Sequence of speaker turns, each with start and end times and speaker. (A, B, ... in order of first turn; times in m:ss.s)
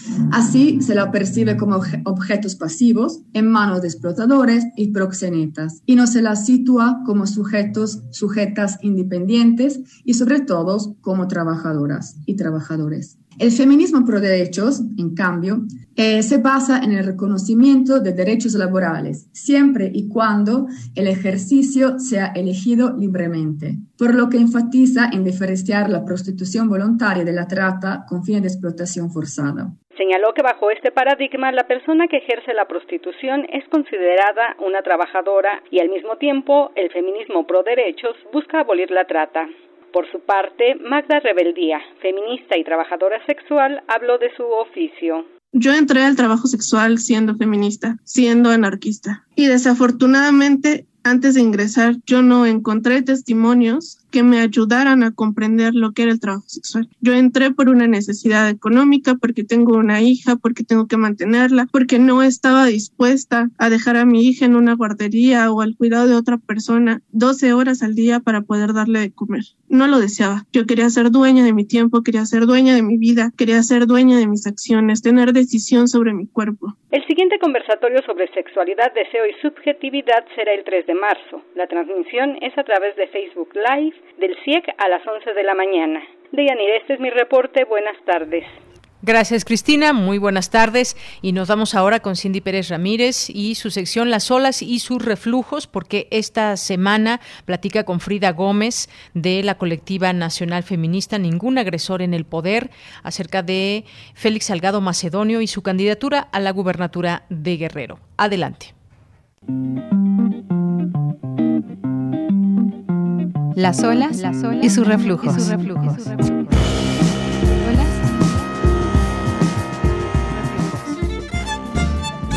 0:00.3-0:29.8 A
0:29.9-0:45.3 B
0:45.5-1:16.8 C
1:16.9-1:28.6 B
1:29.0-1:48.7 D
1:53.6-1:56.5 E
1:57.6-1:58.2 E
2:00.4-2:00.7 E